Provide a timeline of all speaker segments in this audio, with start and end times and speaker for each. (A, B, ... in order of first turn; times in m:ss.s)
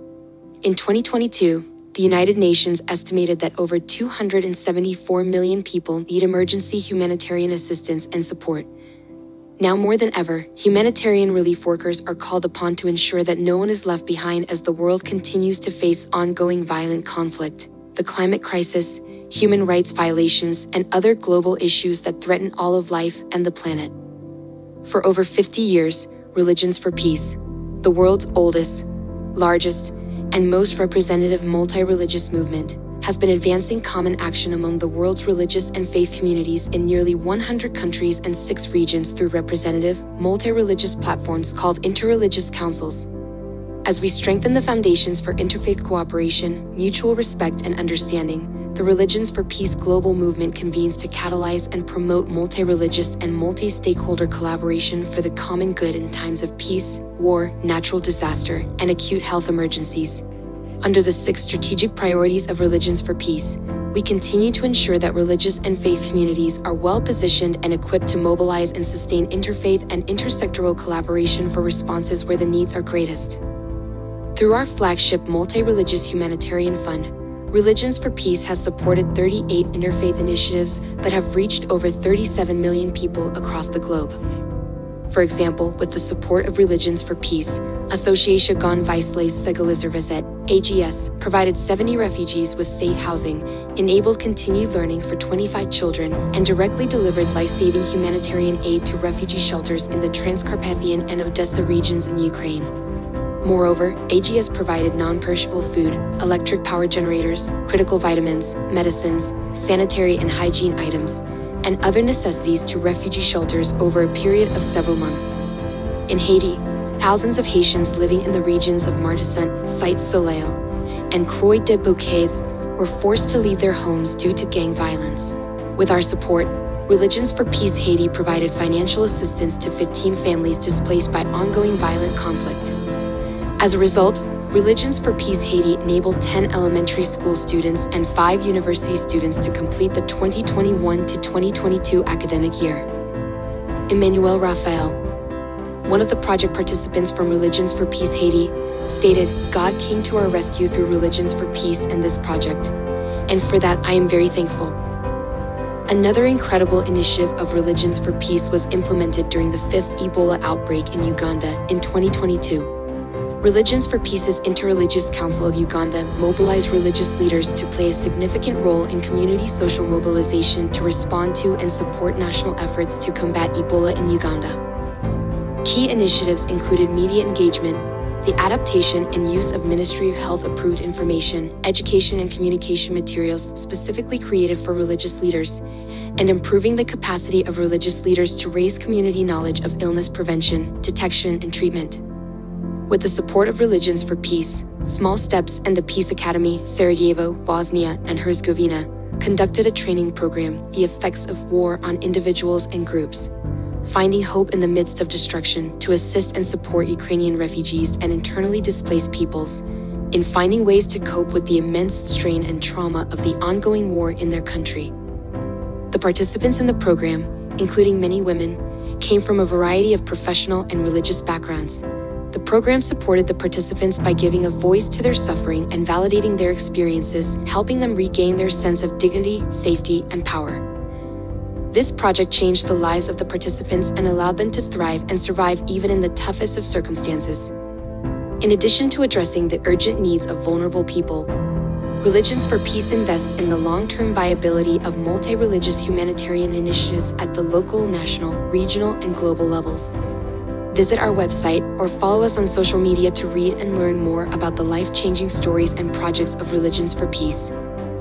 0:00.6-0:08.7 A
0:09.6-0:23.9 A
0:24.8-0:43.1 A
0:43.8-1:00.2 A
1:00.8-1:13.4 A
1:14.3-1:24.2 A
1:25.1-1:42.7 A
1:43.4-1:55.4 A
1:56.1-2:00.6 A
2:01.1-2:12.7 A
2:13.6-2:22.9 A
2:23.9-2:25.0 A
2:25.8-2:32.7 A
2:33.3-2:34.8 A
2:35.9-2:42.7 A
2:43.4-2:54.6 A
2:55.6-3:05.6 A
3:06.2-3:12.0 A
3:12.9-3:23.3 A
3:23.8-3:34.9 A
3:35.9-3:50.6 A
3:51.7-3:57.5 A
3:58.4-4:01.3 A
4:02.0-4:10.0 A
4:10.7-4:17.5 A